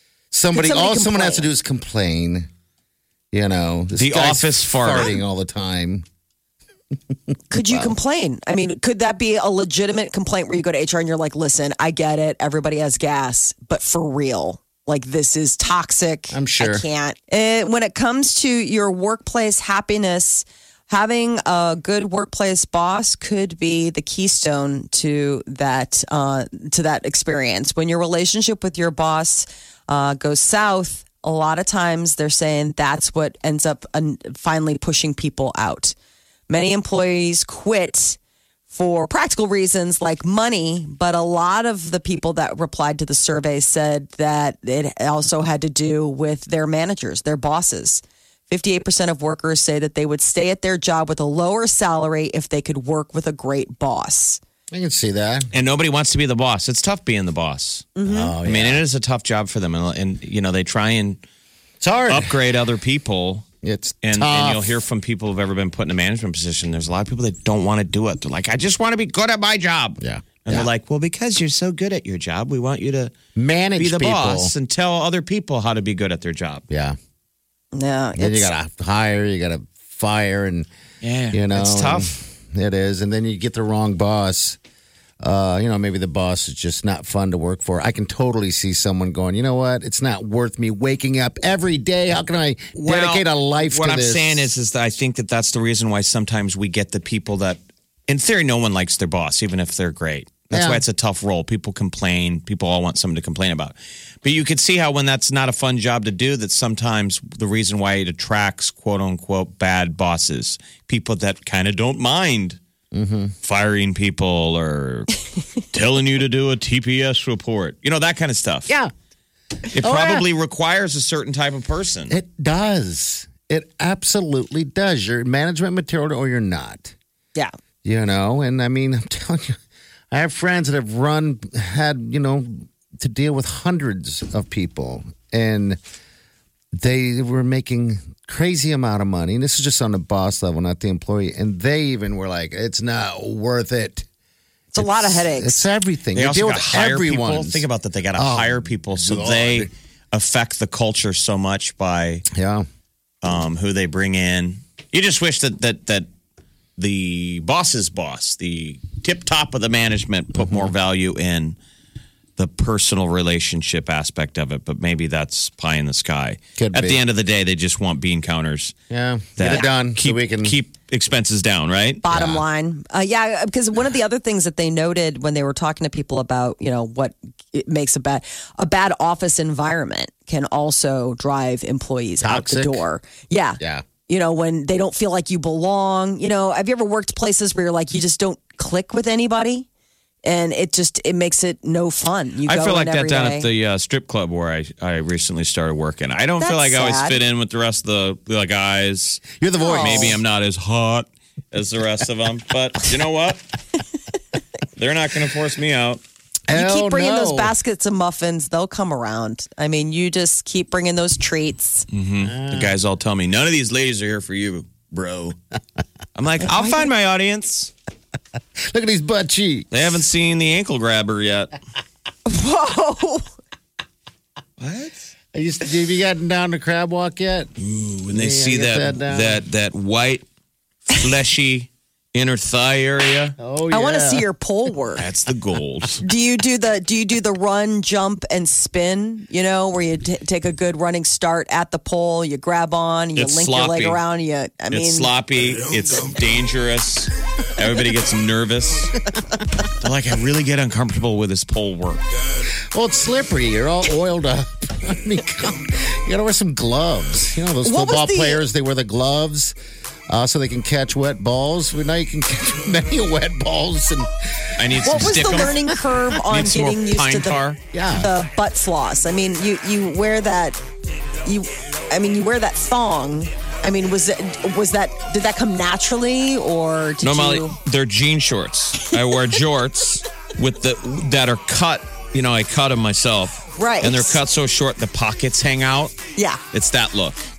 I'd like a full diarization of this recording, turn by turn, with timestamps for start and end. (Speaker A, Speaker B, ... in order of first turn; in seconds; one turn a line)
Speaker A: 0.3-2.5
Speaker B: 0.5-1.5
Speaker A: 3.3-6.0
Speaker C: 4.0-5.2
Speaker B: 7.5-35.9
Speaker A: 7.5-7.9
Speaker A: 16.3-16.9
Speaker B: 36.5-38.2
Speaker B: 38.7-54.4
Speaker A: 54.7-55.5
Speaker C: 55.5-61.2
Speaker B: 58.0-58.3
Speaker A: 58.0-58.8
Speaker A: 61.8-62.3
Speaker C: 62.1-63.4
Speaker A: 63.6-64.7
Speaker C: 64.0-73.1
Speaker A: 70.0-70.7
Speaker A: 73.3-74.5
Speaker C: 73.8-76.6
Speaker A: 76.7-77.0
Speaker B: 77.7-78.5
Speaker A: 78.2-80.7
Speaker C: 81.0-82.2
Speaker A: 81.3-84.6
Speaker A: 85.2-94.5
Speaker C: 92.7-112.6
Speaker A: 100.5-100.8
Speaker A: 112.9-113.3
Speaker C: 113.4-115.1
Speaker C: 115.7-118.7
Speaker C: 119.7-122.1
Speaker A: 119.8-120.2
Speaker A: 122.1-126.9
Speaker A: 127.8-129.6
Speaker A: 130.1-135.8
Speaker A: 136.8-144.0
Speaker B: 144.7-145.7
Speaker A: 144.8-149.7
Speaker C: 146.1-152.2
Speaker A: 152.3-152.6
Speaker C: 153.2-156.1
Speaker C: 156.8-161.6
Speaker A: 160.3-160.7
Speaker C: 162.4-168.7
Speaker A: 166.6-167.0
Speaker A: 168.9-170.6
Speaker C: 169.4-172.0
Speaker B: 172.0-189.7
Speaker A: 172.1-172.4
Speaker A: 182.2-182.8
Speaker B: 190.2-193.5
Speaker C: 192.4-203.4
Speaker B: 196.4-197.2
Speaker A: 199.4-200.2
Speaker B: 199.6-200.2
Speaker C: 204.7-206.0
Speaker A: 206.5-207.5
Speaker B: 206.5-211.8
Speaker C: 211.9-215.3
Speaker A: 212.2-212.8
Speaker C: 216.1-217.7
Speaker B: 216.4-216.9
Speaker A: 218.7-219.9
Speaker C: 219.7-221.5
Speaker B: 222.3-223.3
Speaker C: 224.6-225.0
Speaker A: 225.3-227.5
Speaker C: 227.6-230.2
Speaker A: 228.1-229.4
Speaker C: 230.9-233.3
Speaker A: 233.4-234.3
Speaker B: 233.7-235.0
Speaker C: 235.0-236.0
Speaker B: 236.0-245.1
Speaker C: 243.1-244.0
Speaker C: 244.7-249.0
Speaker C: 249.7-252.0
Speaker A: 252.7-259.5
Speaker B: 257.6-258.4
Speaker A: 260.1-264.5
Speaker C: 264.6-267.6
Speaker B: 264.8-270.6
Speaker A: 267.7-268.1
Speaker B: 271.2-277.6
Speaker C: 277.0-285.9
Speaker B: 283.5-284.2
Speaker B: 286.1-286.4
Speaker C: 286.5-287.2